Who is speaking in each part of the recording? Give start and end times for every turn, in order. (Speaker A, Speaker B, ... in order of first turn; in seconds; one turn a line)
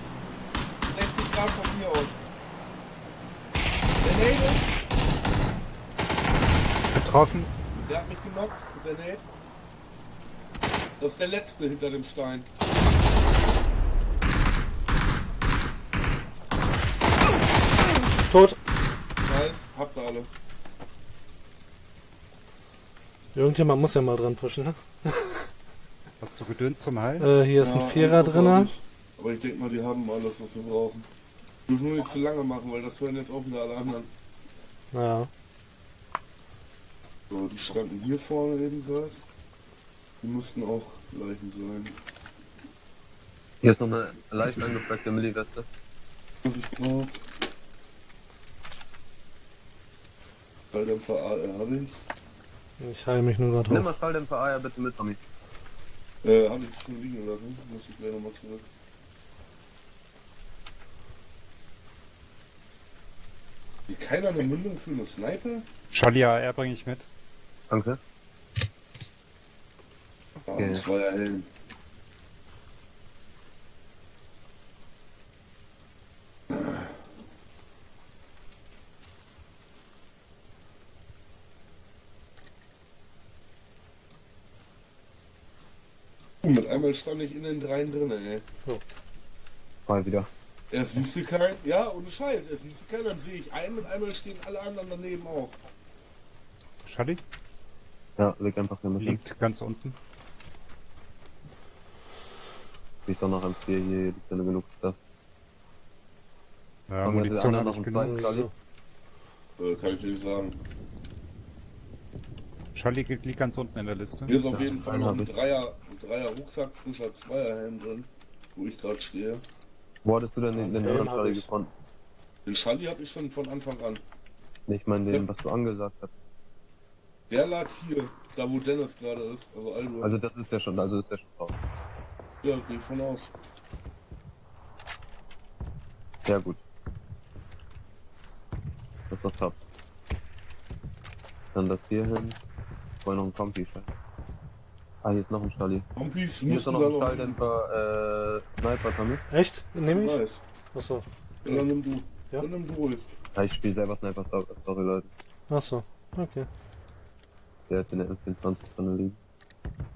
Speaker A: 0.9-2.2
Speaker A: 4.0-4.7
Speaker B: 6.8-7.5
Speaker A: 7.9-9.2
Speaker A: 11.0-12.5
Speaker C: 18.2-18.6
Speaker A: 19.2-20.3
Speaker C: 23.4-25.5
Speaker B: 26.2-27.3
Speaker C: 27.2-28.7
Speaker A: 27.6-31.1
Speaker A: 31.7-34.1
Speaker C: 34.9-35.3
Speaker A: 37.3-39.2
Speaker A: 40.2-42.0
Speaker D: 43.6-45.7
Speaker A: 46.4-47.1
Speaker A: 50.7-52.0
Speaker C: 52.8-53.9
Speaker D: 53.7-55.2
Speaker A: 56.2-58.6
Speaker A: 63.9-65.7
Speaker B: 65.9-67.1
Speaker D: 67.7-68.0
Speaker A: 70.5-71.5
Speaker D: 70.6-70.8
Speaker A: 86.4-88.4
Speaker D: 89.9-90.3
Speaker A: 90.7-95.6
Speaker B: 96.8-97.2
Speaker D: 98.2-99.2
Speaker B: 99.0-100.0
Speaker D: 103.1-105.0
Speaker B: 106.9-108.4
Speaker D: 107.0-108.5
Speaker C: 108.0-108.5
Speaker A: 109.6-110.6
Speaker B: 112.7-114.4
Speaker A: 114.3-119.4
Speaker D: 114.5-115.3
Speaker D: 120.0-121.7
Speaker C: 120.5-121.5
Speaker A: 122.5-124.0
Speaker D: 124.7-126.1
Speaker A: 127.3-130.1
Speaker D: 130.0-131.6
Speaker A: 132.4-133.3
Speaker D: 136.3-136.6
Speaker D: 139.1-139.6
Speaker D: 141.5-142.4
Speaker D: 143.0-143.9
Speaker D: 145.0-145.9
Speaker A: 146.0-147.4
Speaker D: 146.5-149.2
Speaker C: 149.3-150.2
Speaker A: 149.9-150.4
Speaker C: 150.7-151.7
Speaker A: 151.4-153.1
Speaker D: 153.3-155.1
Speaker C: 155.5-156.5
Speaker D: 157.7-159.2